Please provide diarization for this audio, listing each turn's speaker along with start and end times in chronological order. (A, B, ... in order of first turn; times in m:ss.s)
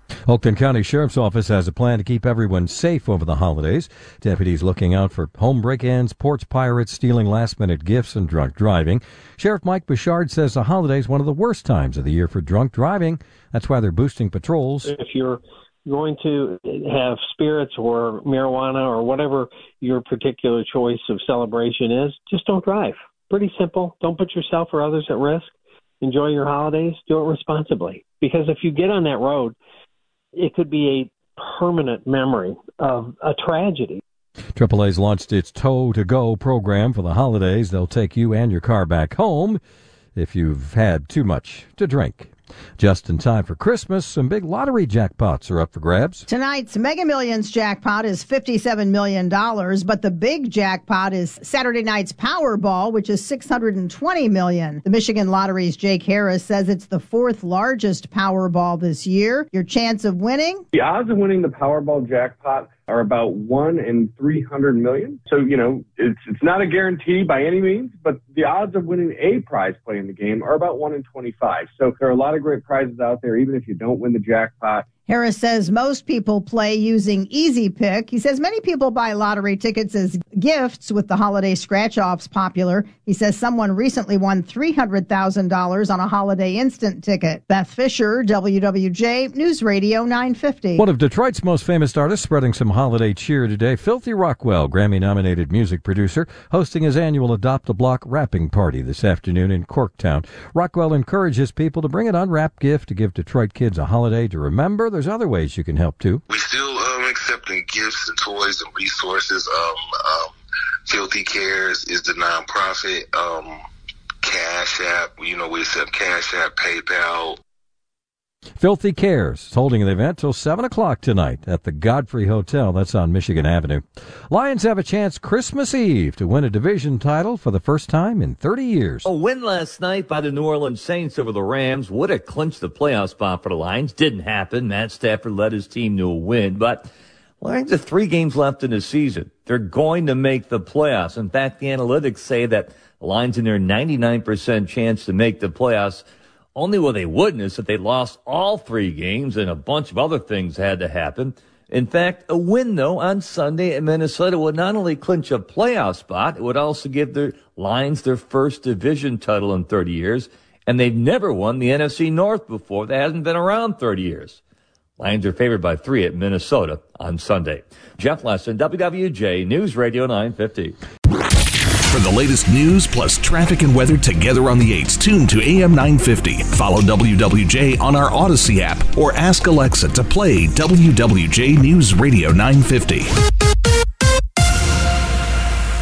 0:00.3-0:14.9 A
0:14.8-0:29.6 B
0:30.4-0:34.0 B
0:34.6-0:39.6 A
0:40.2-0:46.3 A
0:46.3-1:00.6 C
1:00.7-1:14.9 D
1:15.1-1:30.8 C
1:30.8-1:46.2 A
1:46.3-1:53.7 E
1:54.2-1:57.4 E
1:58.6-2:09.1 A
2:09.0-2:16.9 F
2:17.4-2:26.0 F
2:26.6-2:44.4 F
2:45.0-2:50.8 F
2:51.9-3:03.1 G